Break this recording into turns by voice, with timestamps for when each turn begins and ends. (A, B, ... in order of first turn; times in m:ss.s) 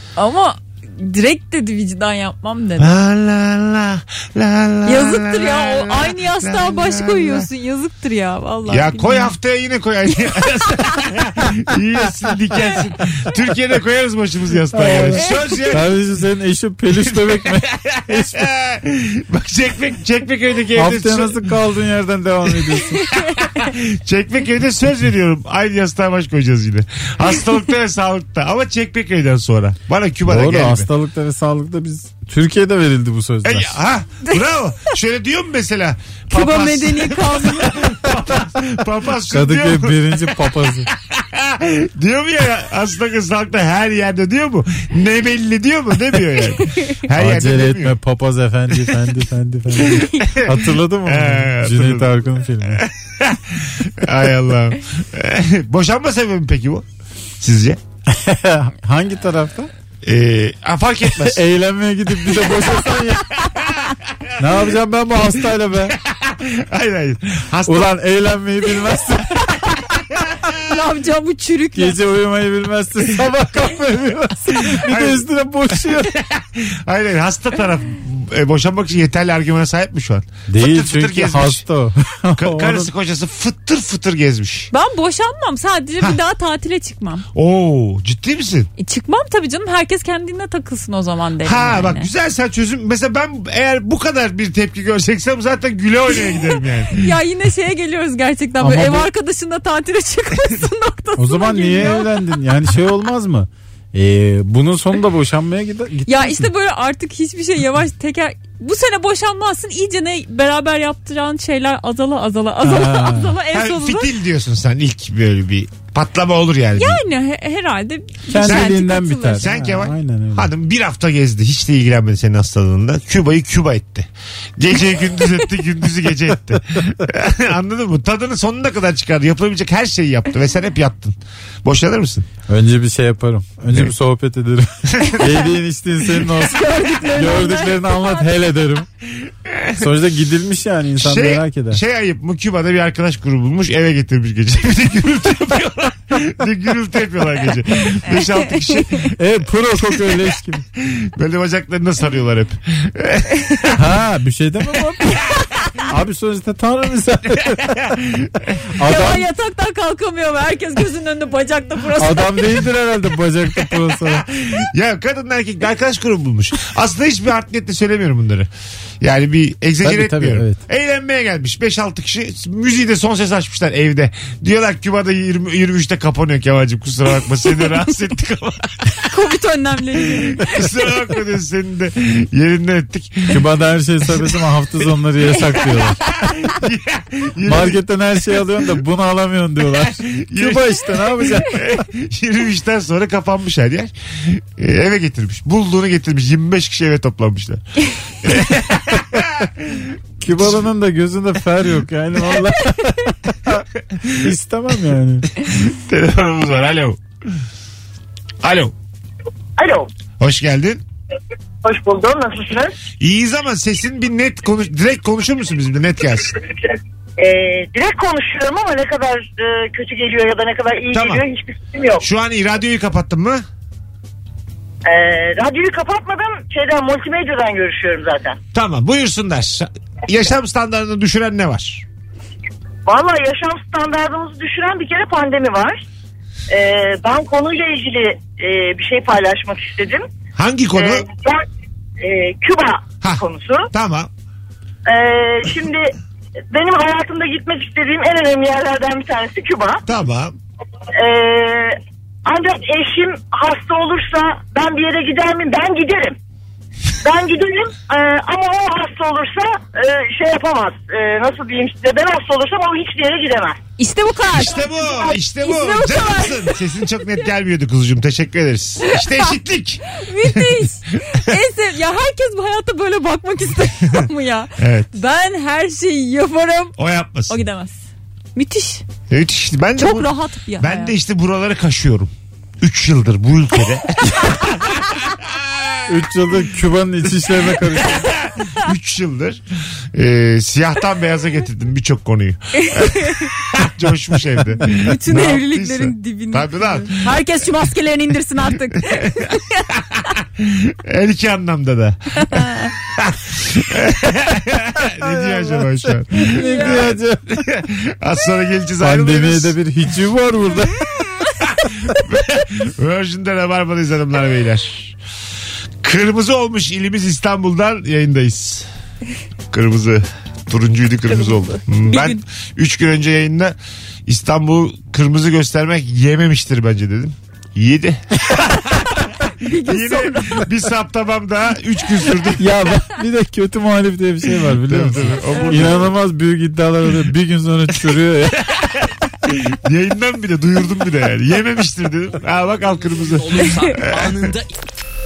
0:00.2-0:02.9 A
0:02.8-0:07.4 B
0:04.8-0:09.3 A
0:08.7-0:15.9 B
0:14.7-0:18.4 C
0:15.2-0:15.6 A
0:16.9-0:21.5 B
0:20.8-0:23.1 C
0:22.7-0:30.9 B
0:30.3-0:33.8 C
0:33.4-0:47.9 B
0:36.3-0:37.9 A
0:39.3-0:40.9 C
0:47.1-0:52.8 C
0:49.9-0:50.2 A
0:50.0-0:56.8 B
0:57.4-0:57.8 B
0:58.1-0:59.7 C
1:00.0-1:01.4 B
1:01.2-1:03.4 C
1:03.6-1:03.8 B
1:04.4-1:06.0 C
1:06.0-1:07.9 B
1:07.7-1:09.5 C
1:10.2-1:10.6 B
1:10.6-1:12.0 A
1:11.7-1:16.1 C
1:14.6-1:21.6 B
1:20.5-1:22.9 C
1:22.4-1:24.7 B
1:24.7-1:27.2 A
1:27.3-1:28.7 B
1:28.8-1:32.1 A
1:31.4-1:37.1 B
1:36.2-1:42.4 A
1:38.6-1:39.1 C
1:41.2-1:46.5 C
1:46.1-1:54.1 A
1:52.6-1:53.3 C
1:53.5-1:57.0 B
1:56.7-1:59.5 A
1:58.3-2:00.5 C
1:58.4-1:58.8 B
1:59.4-2:12.3 B
2:12.5-2:18.9 C
2:14.9-2:15.2 B
2:16.3-2:18.2 A
2:19.2-2:19.9 B
2:19.8-2:21.8 C
2:21.0-2:29.1 B
2:28.1-2:29.0 A
2:29.1-2:30.6 C
2:30.8-2:33.8 B
2:33.7-2:35.2 C
2:35.0-2:35.8 A
2:35.9-2:37.7 C
2:37.5-2:38.6 B
2:38.8-2:39.2 C
2:38.8-2:42.6 A
2:42.0-2:44.3 C
2:44.1-2:48.5 B
2:49.0-2:59.1 B
2:49.8-2:50.6 C
2:59.1-3:00.6 A
3:00.0-3:03.4 B
3:03.3-3:06.0 C
3:06.0-3:07.8 B
3:07.4-3:11.6 C
3:10.1-3:20.6 B
3:20.2-3:23.6 C
3:23.9-3:24.2 B
3:24.2-3:25.3 C
3:25.4-3:27.0 B
3:28.4-3:28.7 B
3:29.6-3:29.9 D
3:30.2-3:30.8 B
3:31.6-3:32.7 D
3:33.0-3:36.3 B
3:36.7-3:42.0 D
3:40.9-3:41.2 B
3:42.0-3:43.4 B
3:44.8-3:48.4 D
3:48.5-3:51.8 B
3:52.8-3:55.8 D
3:56.5-4:00.0 D
4:00.4-4:01.0 B
4:00.7-4:01.4 D
4:02.0-4:03.7 D
4:03.0-4:04.1 B
4:04.8-4:05.9 D
4:06.5-4:09.8 D
4:09.8-4:10.4 B
4:10.9-4:16.2 D
4:17.0-4:23.6 D
4:23.8-4:26.6 A
4:24.3-4:30.5 B
4:28.8-4:29.3 A
4:30.0-4:36.8 A
4:34.6-4:34.9 B
4:36.8-4:37.4 B
4:37.3-4:37.8 A
4:38.3-4:38.8 A
4:39.1-4:45.9 B
4:39.8-4:41.0 A
4:45.9-4:48.1 C
4:47.8-4:49.4 B
4:49.9-4:57.2 B
4:52.6-4:53.3 A
4:54.8-4:59.7 A
4:58.9-4:59.2 B
4:59.8-5:09.6 B
5:02.2-5:02.7 A
5:04.8-5:07.2 C
5:06.2-5:06.8 A
5:08.8-5:10.8 C
5:11.5-5:15.0 B
5:15.8-5:18.7 B
5:19.5-5:32.5 B
5:21.2-5:22.2 A
5:29.0-5:30.5 A
5:32.4-5:38.4 C
5:34.4-5:35.9 B
5:35.3-5:35.8 A
5:38.5-5:44.4 B